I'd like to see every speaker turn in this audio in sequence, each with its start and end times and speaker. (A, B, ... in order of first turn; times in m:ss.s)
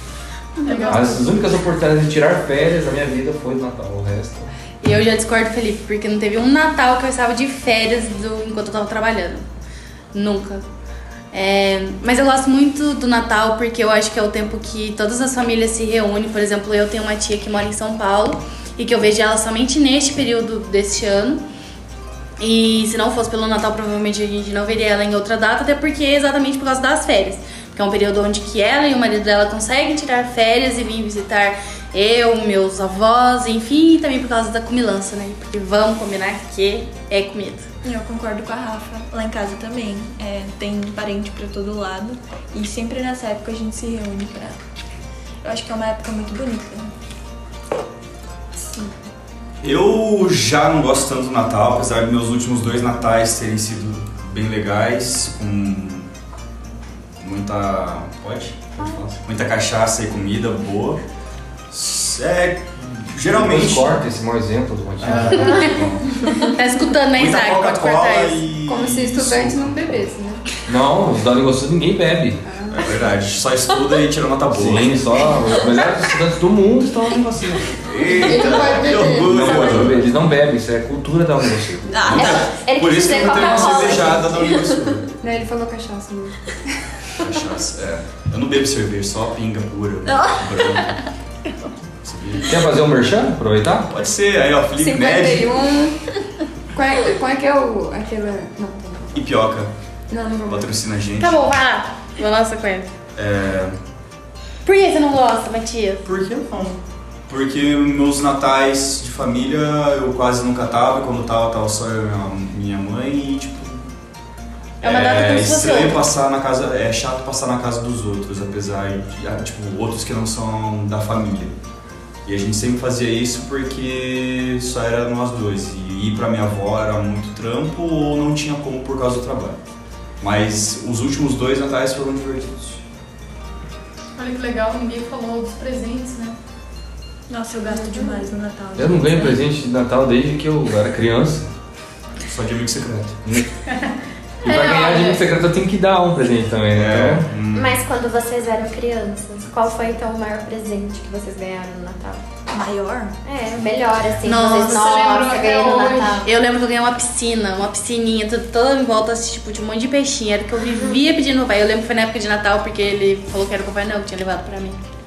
0:00.7-0:01.2 A
0:00.8-0:04.5 B
0:04.8-0:09.4 C
0:10.1-0:10.6 C
0:11.3-0:21.4 C
0:22.4-0:37.7 C
0:37.8-0:44.6 D
0:45.4-0:46.9 D
0:48.6-0:48.9 E
0:49.6-0:56.1 F
0:57.2-1:01.0 F
1:01.7-1:04.0 F
1:03.3-1:05.5 B
1:05.0-1:06.2 F
1:05.1-1:05.5 E
1:05.3-1:08.4 C
1:05.4-1:05.7 G
1:07.1-1:09.7 F
1:08.6-1:10.4 E
1:10.7-1:12.4 B
1:12.4-1:13.2 E
1:12.7-1:15.0 F
1:14.5-1:18.6 B
1:17.8-1:20.1 F
1:18.0-1:20.0 E
1:19.1-1:22.1 B
1:21.9-1:22.5 D
1:22.0-1:25.1 F
1:22.1-1:24.8 G
1:23.4-1:24.0 D
1:25.2-1:26.7 E
1:27.2-1:30.9 F
1:30.0-1:31.7 D
1:32.0-1:32.6 F
1:32.5-1:33.9 B
1:33.9-1:35.6 F
1:34.7-1:36.0 E
1:36.7-1:39.2 E
1:39.2-1:39.7 F
1:40.1-1:40.8 E
1:40.5-1:41.4 F
1:41.2-1:42.9 C
1:43.2-1:43.8 F
1:44.6-1:46.0 C
1:46.0-1:53.9 F
1:54.8-1:56.0 C
1:54.8-2:01.6 F
2:02.2-2:09.6 F
2:10.2-2:12.8 F
2:14.2-2:16.4 A
2:17.3-2:19.4 D
2:17.7-2:18.2 G
2:18.8-2:21.5 B
2:22.3-2:23.2 F
2:23.7-2:25.2 A
2:24.4-2:27.3 B
2:26.7-2:27.8 F
2:27.5-2:32.2 G
2:32.5-2:33.2 D
2:33.2-2:36.3 G
2:34.2-2:34.9 C
2:34.8-2:36.2 A
2:36.2-2:44.8 C
2:40.8-2:41.0 G